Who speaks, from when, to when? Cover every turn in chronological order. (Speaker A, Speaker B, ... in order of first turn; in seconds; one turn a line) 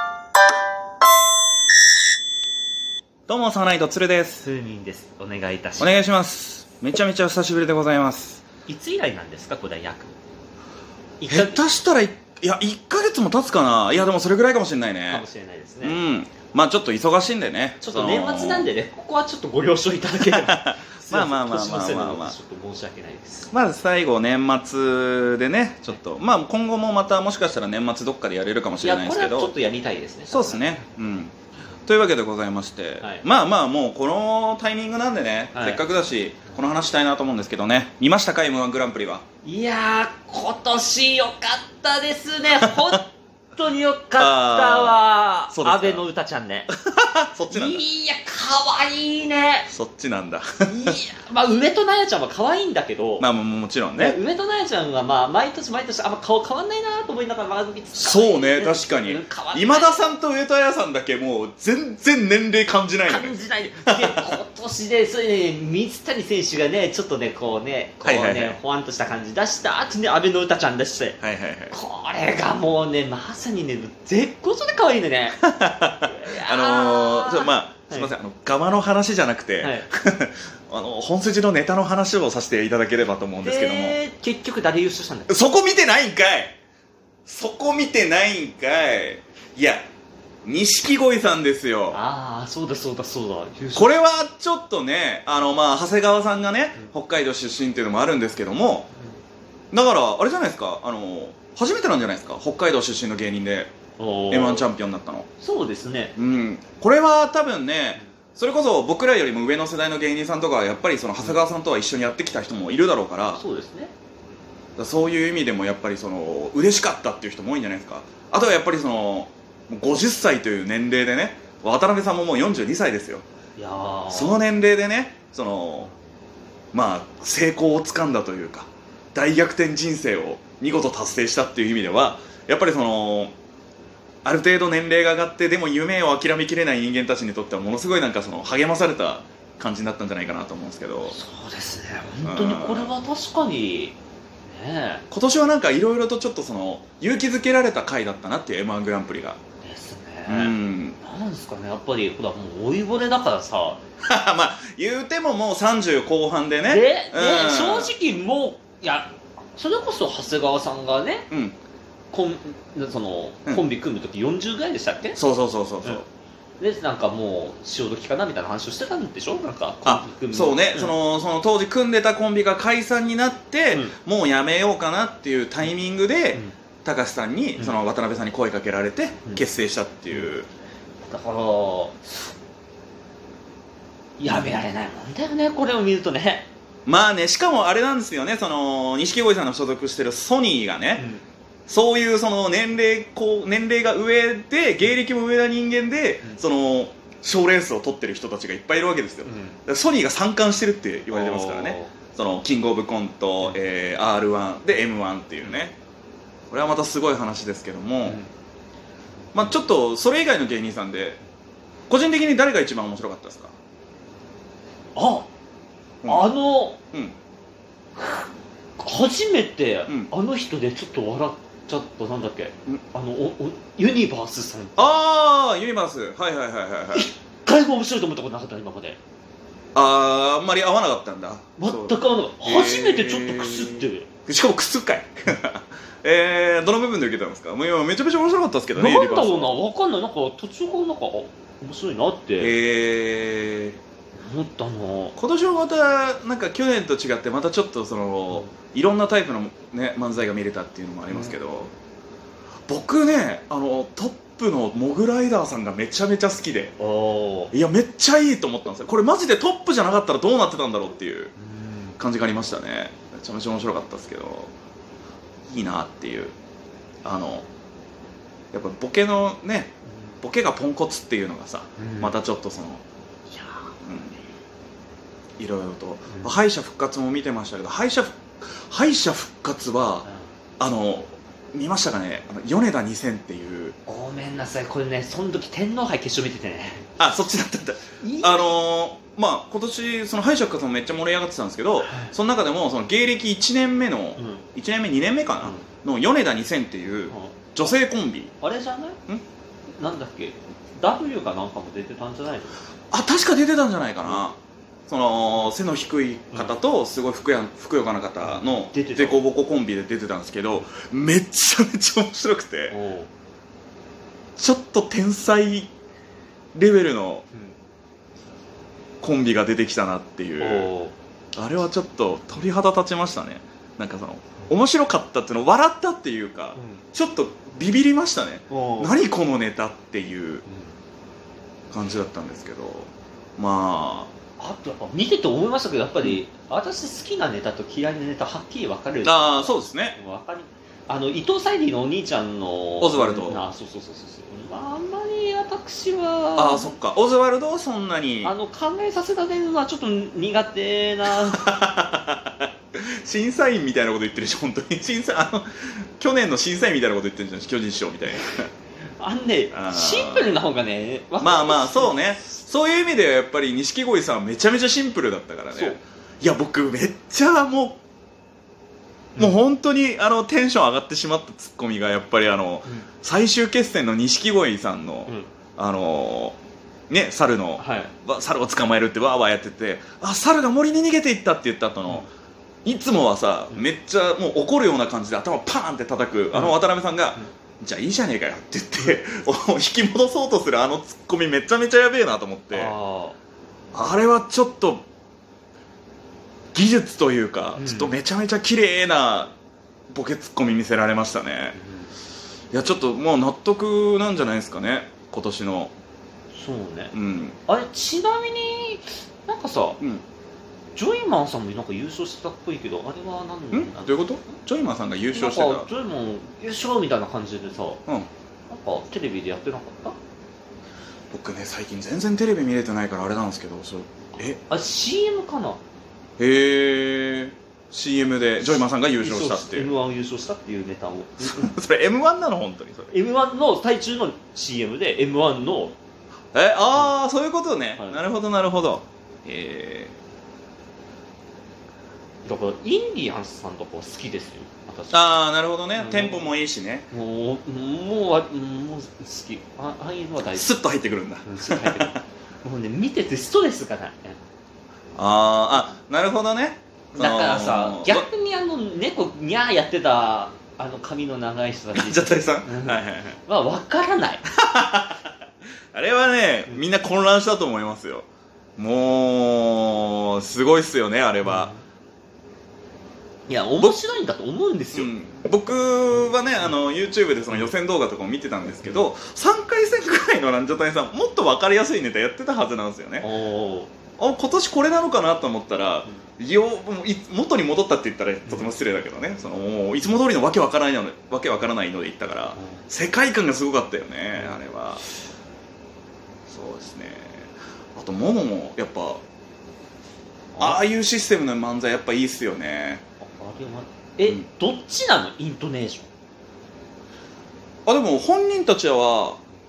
Speaker A: 3.3-4.5
Speaker B: 4.4-6.0
Speaker A: 5.8-8.4
Speaker B: 8.7-10.1
Speaker B: 11.2-11.6
Speaker A: 11.3-15.2
Speaker B: 15.1-16.0
Speaker A: 15.8-18.7
Speaker B: 17.8-23.5
Speaker A: 20.2-22.3
Speaker A: 23.5-29.5
Speaker B: 28.8-30.7
Speaker A: 30.3-31.3
Speaker A: 31.9-39.2
Speaker B: 35.5-35.8
Speaker B: 39.4-46.7
Speaker A: 42.6-43.0
Speaker A: 44.2-46.0
Speaker A: 46.7-47.8
Speaker B: 47.5-49.7
Speaker A: 49.7-50.9
Speaker B: 50.6-53.2
Speaker A: 53.2-54.2
Speaker B: 54.0-60.1
Speaker A: 57.9-64.4
Speaker B: 63.0-71.2
Speaker A: 68.0-68.6
Speaker A: 71.2-71.8
Speaker B: 71.7-75.4
Speaker A: 75.4-84.0
Speaker B: 76.0-78.1
Speaker B: 79.6-79.8
Speaker B: 83.4-85.4
Speaker A: 85.3-86.5
Speaker A: 87.2-89.8
Speaker A: 90.4-92.0
Speaker B: 91.9-93.9
Speaker A: 93.7-98.9
Speaker A: 99.7-103.7
Speaker B: 104.0-104.7
Speaker A: 104.3-105.3
Speaker B: 105.4-106.1
Speaker A: 106.2-113.4
Speaker B: 113.3-113.9
Speaker A: 114.8-123.2
Speaker B: 123.6-124.4
Speaker A: 124.1-125.9
Speaker A: 126.7-133.3
Speaker A: 134.2-141.2
Speaker B: 141.1-143.9
Speaker A: 142.2-142.9
Speaker B: 144.5-145.0
Speaker A: 145.1-149.4
Speaker B: 149.6-153.8
Speaker A: 150.3-151.0
Speaker A: 154.0-157.9
Speaker B: 156.7-161.3
Speaker A: 161.3-161.6
Speaker B: 162.1-165.2
Speaker A: 165.2-166.1
Speaker B: 166.6-170.9
Speaker A: 169.8-180.5
Speaker B: 179.2-179.5
Speaker B: 181.1-182.3
Speaker B: 184.2-186.5
Speaker A: 186.8-191.0
Speaker B: 190.9-191.2
Speaker A: 191.7-205.8
Speaker B: 199.2-199.6
Speaker B: 201.1-201.9
Speaker A: 206.5-208.2
Speaker A: 209.3-211.2
Speaker A: 211.9-213.5
Speaker B: 214.9-215.3
Speaker A: 216.0-216.3
Speaker B: 216.0-216.8
Speaker B: 218.0-225.0
Speaker A: 224.8-227.1
Speaker B: 226.9-229.0
Speaker A: 229.7-239.6
Speaker B: 231.6-234.1
Speaker B: 238.7-242.6
Speaker A: 242.4-243.8
Speaker B: 244.2-245.2
Speaker A: 245.2-251.7
Speaker B: 251.1-251.3
Speaker A: 252.7-256.7
Speaker B: 256.8-257.5
Speaker A: 257.5-261.3
Speaker B: 261.4-262.0
Speaker A: 262.0-264.5
Speaker A: 265.5-266.3
Speaker A: 267.0-267.4
Speaker A: 268.5-272.8
Speaker B: 271.8-272.2
Speaker B: 273.4-273.7
Speaker A: 273.8-274.1
Speaker A: 275.4-280.1
Speaker B: 276.1-276.4
Speaker A: 280.6-283.8
Speaker B: 283.9-286.9
Speaker A: 287.0-298.3
Speaker B: 288.0-288.6
Speaker B: 291.8-292.1
Speaker B: 294.2-294.4
Speaker B: 295.4-295.7
Speaker B: 297.1-297.4
Speaker B: 298.4-299.0
Speaker B: 299.8-302.6
Speaker A: 302.9-312.8
Speaker B: 306.3-306.6
Speaker B: 308.2-309.2
Speaker B: 312.7-313.1
Speaker A: 314.4-315.7
Speaker A: 316.5-317.3
Speaker A: 319.0-320.7
Speaker B: 320.4-320.9
Speaker A: 321.4-330.4
Speaker B: 326.6-326.8
Speaker B: 328.5-328.9
Speaker B: 330.4-330.7
Speaker A: 331.7-334.1
Speaker B: 334.4-346.7
Speaker A: 339.0-340.0
Speaker A: 342.8-343.4
Speaker A: 346.4-348.3
Speaker B: 348.2-351.5
Speaker A: 351.1-358.5
Speaker B: 359.0-362.2
Speaker A: 359.5-360.3
Speaker A: 361.2-367.8
Speaker A: 369.2-376.4
Speaker A: 376.9-382.1
Speaker B: 377.6-377.9
Speaker A: 382.6-392.7
Speaker B: 386.3-386.6
Speaker B: 392.5-393.2
Speaker A: 393.7-394.8
Speaker A: 396.5-399.3
Speaker B: 397.6-397.9
Speaker A: 399.9-401.6
Speaker B: 401.6-401.9
Speaker A: 402.5-405.7
Speaker B: 406.3-406.9
Speaker A: 406.9-407.4
Speaker B: 407.5-409.8
Speaker B: 410.8-414.1
Speaker A: 413.5-415.7
Speaker B: 415.1-417.8
Speaker B: 418.5-420.0
Speaker A: 421.1-424.4
Speaker B: 424.5-425.6
Speaker A: 426.2-429.7
Speaker B: 429.0-431.5
Speaker A: 431.2-432.9
Speaker B: 432.9-435.8
Speaker A: 436.3-439.9
Speaker B: 437.8-438.0
Speaker B: 442.2-445.1
Speaker A: 444.9-446.9
Speaker B: 445.7-446.3
Speaker B: 446.9-450.6
Speaker A: 450.3-452.0
Speaker B: 451.2-454.2
Speaker A: 455.0-458.1
Speaker B: 456.9-464.2
Speaker A: 461.7-463.2
Speaker A: 464.4-465.1
Speaker A: 465.7-468.1
Speaker A: 468.6-471.5
Speaker B: 471.2-471.6
Speaker B: 473.3-474.9
Speaker A: 474.7-483.1
Speaker B: 483.0-483.7
Speaker A: 484.0-494.8
Speaker B: 488.2-488.5
Speaker B: 492.4-492.6
Speaker A: 496.3-499.0
Speaker B: 500.3-500.6
Speaker A: 500.4-502.8
Speaker B: 503.0-505.9
Speaker A: 507.6-509.2